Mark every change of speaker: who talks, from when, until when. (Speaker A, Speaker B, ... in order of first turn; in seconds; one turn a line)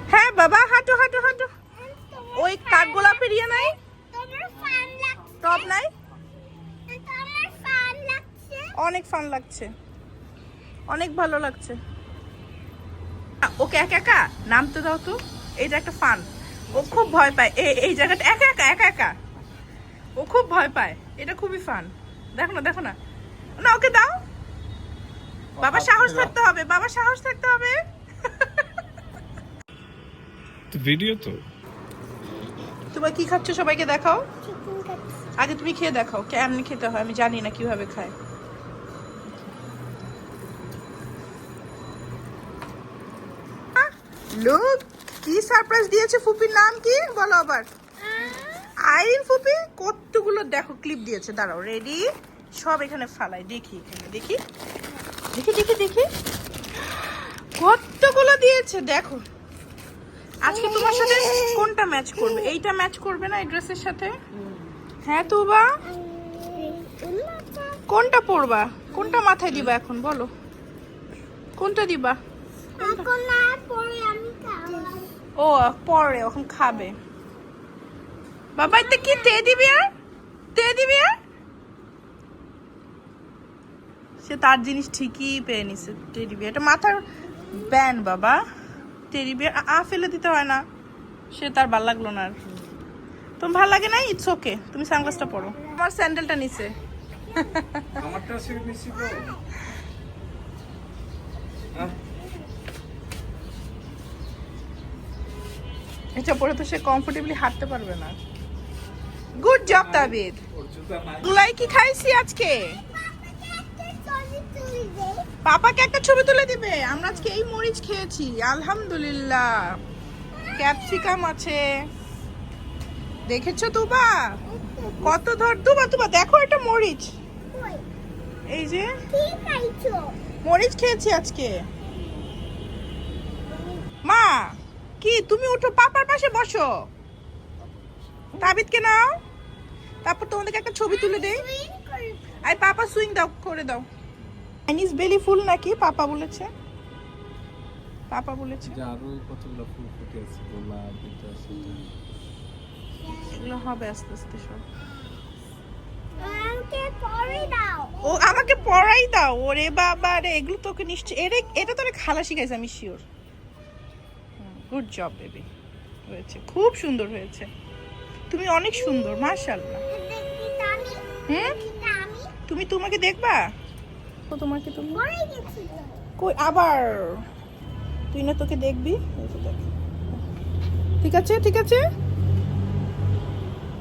Speaker A: 0.1-1.5
Speaker B: 1.8-5.6
Speaker A: 2.4-3.7
Speaker A: 5.4-5.9
Speaker B: 6.9-8.7
Speaker A: 8.8-9.7
Speaker A: 10.9-11.8
Speaker A: 13.4-19.1
Speaker A: 20.2-22.9
Speaker A: 23.6-24.2
Speaker C: 25.6-26.3
Speaker A: 25.6-28.7
Speaker C: 30.7-31.4
Speaker A: 32.9-34.2
Speaker B: 34.5-35.1
Speaker A: 35.4-38.1
Speaker A: 43.8-47.7
Speaker B: 48.0-48.7
Speaker A: 48.8-52.0
Speaker A: 52.6-54.4
Speaker A: 55.3-56.0
Speaker A: 56.8-59.2
Speaker A: 60.4-64.1
Speaker B: 60.6-61.6
Speaker A: 65.0-65.7
Speaker B: 65.9-67.8
Speaker A: 67.9-70.3
Speaker B: 69.0-69.2
Speaker A: 71.6-72.2
Speaker B: 72.8-75.1
Speaker A: 72.8-73.1
Speaker A: 75.4-76.9
Speaker A: 78.5-79.8
Speaker B: 78.6-79.5
Speaker A: 80.5-81.1
Speaker A: 84.2-88.4
Speaker A: 89.1-90.6
Speaker A: 91.3-92.3
Speaker A: 93.4-96.7
Speaker A: 97.3-98.0
Speaker C: 97.9-99.4
Speaker A: 106.2-108.2
Speaker A: 109.4-110.4
Speaker C: 109.6-111.5
Speaker A: 111.2-112.8
Speaker B: 112.9-115.3
Speaker A: 115.4-119.8
Speaker A: 120.6-121.6
Speaker A: 123.3-124.2
Speaker B: 124.5-125.1
Speaker A: 125.0-127.1
Speaker B: 127.5-127.8
Speaker A: 128.5-128.9
Speaker B: 129.1-130.2
Speaker A: 130.4-131.6
Speaker B: 131.9-132.2
Speaker B: 133.5-133.8
Speaker A: 134.0-136.8
Speaker A: 138.4-139.2
Speaker A: 140.0-141.4
Speaker B: 140.9-142.3
Speaker A: 142.4-143.9
Speaker A: 144.7-146.5
Speaker A: 148.1-148.8
Speaker C: 148.7-151.9
Speaker A: 153.1-154.6
Speaker B: 156.1-158.6
Speaker A: 158.0-163.0
Speaker A: 164.4-165.4
Speaker A: 166.1-167.5
Speaker A: 168.3-169.8
Speaker B: 169.9-172.3
Speaker A: 171.3-171.6
Speaker A: 172.5-173.4
Speaker A: 174.3-175.0
Speaker B: 174.9-176.0
Speaker A: 176.2-177.2
Speaker A: 178.1-179.7
Speaker A: 181.0-181.8